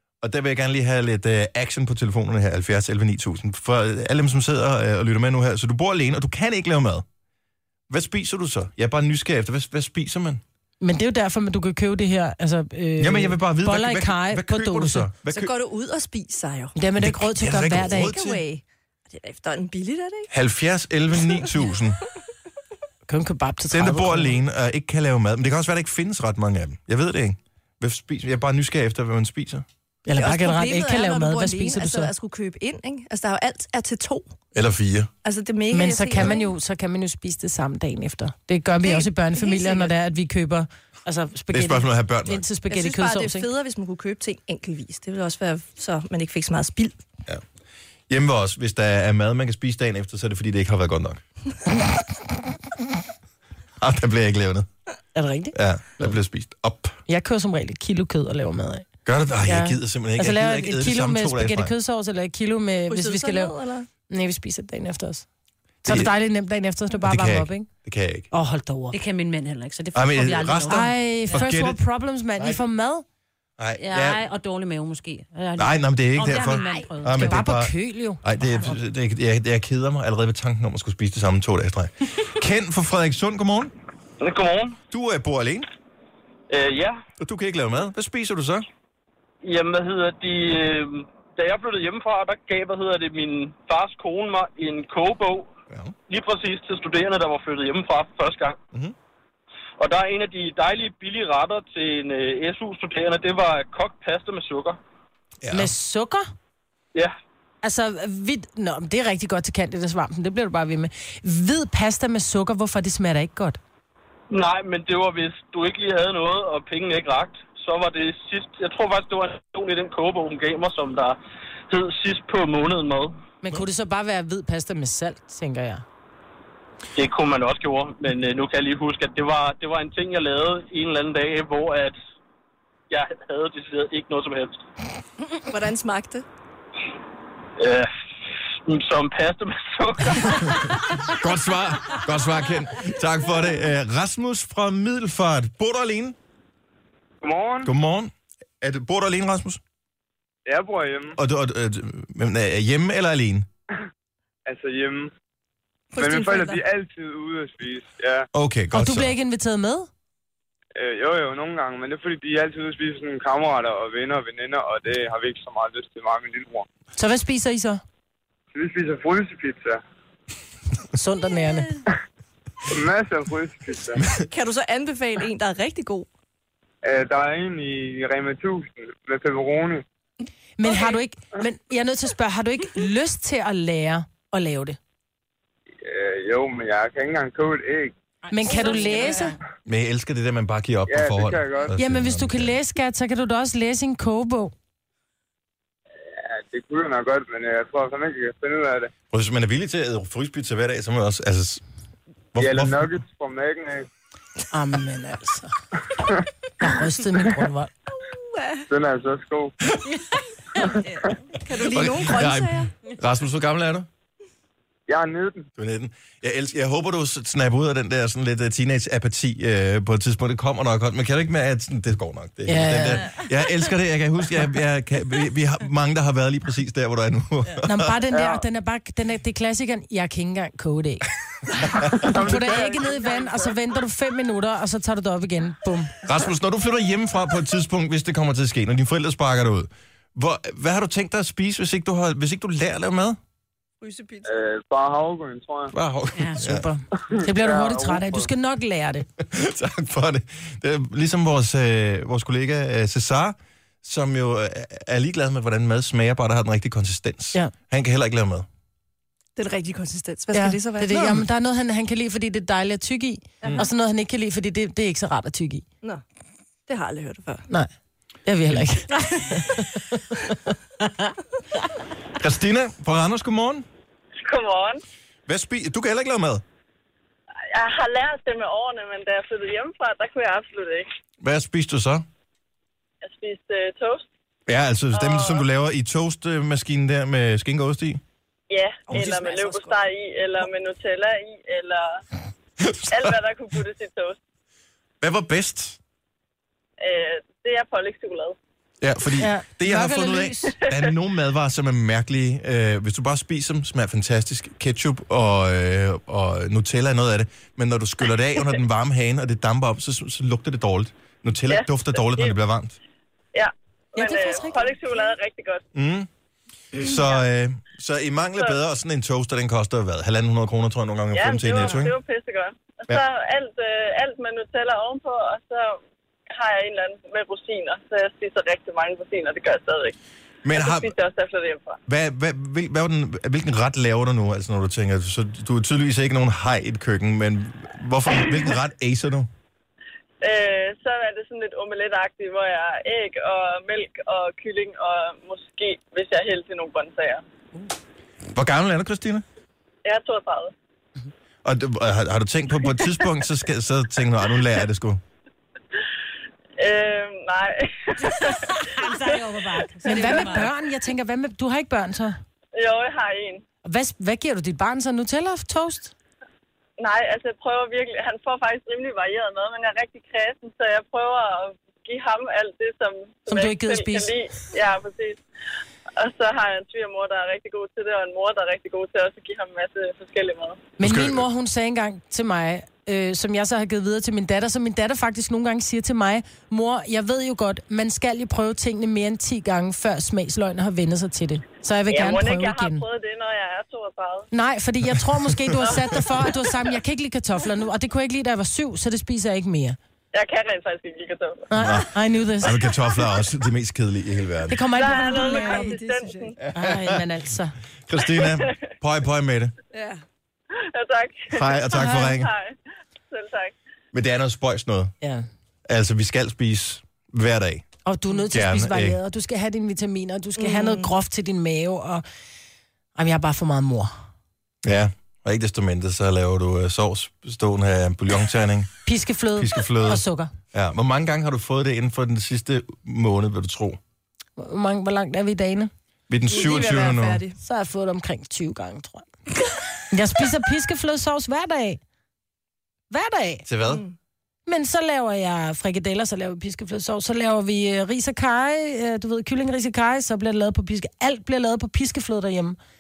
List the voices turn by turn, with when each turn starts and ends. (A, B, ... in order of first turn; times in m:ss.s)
0:00.2-0:07.1 A
0:07.9-0:10.4 A
0:10.8-0:15.1 B
0:13.0-0:15.5 A
0:15.3-0:16.8 C
0:16.8-0:18.2 B
0:17.0-0:18.4 A
0:17.9-0:20.3 C
0:20.3-0:22.0 A
0:23.1-0:24.4 B
0:23.7-0:29.6 A
0:30.1-0:32.1 B
0:30.1-0:34.4 C
0:34.5-0:35.1 A
0:35.2-0:36.5 C
0:35.7-0:43.5 B
0:38.8-0:39.9 C
0:41.5-0:42.4 A
0:42.7-0:47.0 C
0:48.1-0:51.2 A
0:53.8-0:54.7 A
0:55.2-0:55.6 B
0:55.5-0:57.0 A
0:57.1-0:58.9 B
0:59.0-1:01.7 A
0:59.4-1:03.6 B
1:02.9-1:03.9 C
1:04.1-1:05.3 B
1:05.8-1:07.7 B
1:05.9-1:06.1 A
1:07.0-1:08.3 A
1:08.3-1:09.0 B
1:08.9-1:11.4 D
1:09.9-1:11.8 A
1:10.7-1:13.0 B
1:13.6-1:14.2 A
1:13.8-1:17.4 D
1:15.6-1:23.7 A
1:16.6-1:18.8 B
1:24.2-1:24.7 E
1:24.9-1:25.7 A
1:26.5-1:26.9 E
1:27.2-1:28.7 A
1:29.4-1:35.5 E
1:36.1-1:38.6 E
1:39.8-1:44.8 E
1:45.4-1:45.7 A
1:45.5-1:46.3 B
1:47.6-1:53.6 B
1:54.3-2:01.1 E
2:01.7-2:03.1 E
2:03.4-2:05.8 B
2:07.0-2:11.9 E
2:12.9-2:14.5 E
2:15.4-2:16.3 C
2:18.7-2:20.5 E
2:21.1-2:26.2 A
2:27.2-2:27.7 F
2:27.6-2:29.6 A
2:30.5-2:31.2 F
2:31.2-2:33.5 A
2:34.5-2:35.1 F
2:35.9-2:36.6 C
2:36.0-2:38.3 F
2:38.3-2:39.1 A
2:38.7-2:39.9 B
2:40.8-2:46.7 F
2:47.0-2:47.8 B
2:48.5-2:49.8 F
2:50.9-2:51.8 B
2:52.7-2:54.0 F
2:54.3-2:56.1 C
2:56.8-2:59.8 F
3:00.6-3:04.8 B
3:05.8-3:07.9 F
3:08.2-3:09.4 D
3:08.3-3:09.4 B
3:09.7-3:12.6 A
3:10.9-3:11.7 F
3:11.8-3:14.5 B
3:16.2-3:18.9 F
3:19.1-3:21.6 A
3:22.3-3:22.9 A
3:22.4-3:23.9 F
3:24.5-3:25.5 B
3:26.6-3:27.7 B
3:28.0-3:28.7 C
3:28.7-3:29.5 F
3:31.3-3:32.7 C
3:31.6-3:33.9 A
3:34.9-3:35.4 F
3:35.6-3:48.1 A
3:42.5-3:43.1 B
3:47.6-3:51.1 B
3:51.8-3:52.1 A
3:52.0-3:55.9 B
3:52.3-3:52.8 F
3:56.0-4:03.2 A
4:03.8-4:04.3 C
4:04.3-4:05.7 F
4:05.7-4:06.7 A
4:06.4-4:09.1 B
4:07.2-4:08.3 F
4:09.2-4:18.5 A
4:19.4-4:21.2 C
4:20.3-4:25.7 B
4:26.7-4:27.4 C
4:28.3-4:31.1 B
4:32.2-4:33.7 A
4:34.2-4:34.8 G
4:35.3-4:36.4 A
4:37.5-4:40.9 G
4:41.2-4:42.1 A
4:43.0-4:44.1 G
4:44.5-4:48.0 A
4:44.9-4:45.4 G
4:48.5-4:52.0 G
4:48.9-4:49.8 C
4:52.6-4:53.2 A
4:52.9-4:54.2 G
4:55.0-4:55.8 A
4:56.8-4:58.4 G
4:58.8-5:12.8 A
4:59.2-5:00.6 B
5:11.5-5:12.4 G
5:13.3-5:15.6 G
5:14.0-5:14.8 B
5:15.7-5:16.1 A
5:16.7-5:22.0 A
5:21.1-5:25.8 G
5:26.3-5:30.0 G
5:30.4-5:30.9 A
5:30.5-5:31.8 G
5:31.9-5:39.3 A
5:40.2-5:47.2 G
5:48.3-5:49.2 A
5:49.8-5:50.5 G
5:51.4-5:55.0 A
5:56.6-6:00.1 G
5:58.1-6:00.5 D
5:59.8-6:02.2 B
6:02.6-6:03.4 G
6:03.6-6:05.9 B
6:06.8-6:15.2 G
6:13.3-6:14.1 B
6:16.0-6:20.7 G
6:20.8-6:32.8 B
6:20.8-6:21.2 A
6:31.9-6:34.3 G
6:34.3-6:39.8 B
6:35.3-6:35.6 A
6:35.6-6:36.4 G
6:40.1-6:41.5 G
6:41.5-6:42.6 B
6:41.6-6:44.7 A
6:44.5-6:45.7 B
6:44.8-6:46.4 G
6:44.8-6:46.4 C
6:46.5-6:47.0 A
6:46.6-6:47.6 B
6:47.9-6:49.6 A
6:48.2-6:48.5 G
6:49.7-6:50.0 C
6:50.6-6:52.6 G
6:51.3-6:52.3 A
6:51.8-6:52.1 B
6:53.1-6:53.6 G
6:53.9-6:54.9 A
6:55.7-6:57.7 A
6:57.8-7:02.0 B
6:58.3-6:59.0 A
7:03.0-7:03.9 B
7:04.6-7:08.7 A
7:08.8-7:10.3 B
7:09.4-7:13.8 A
7:14.4-7:15.7 B
7:16.1-7:17.2 A
7:16.3-7:17.4 C
7:17.4-7:19.1 B
7:19.9-7:21.8 B
7:22.9-7:23.4 B
7:23.5-7:23.8 A
7:23.6-7:24.0 C
7:24.4-7:32.6 B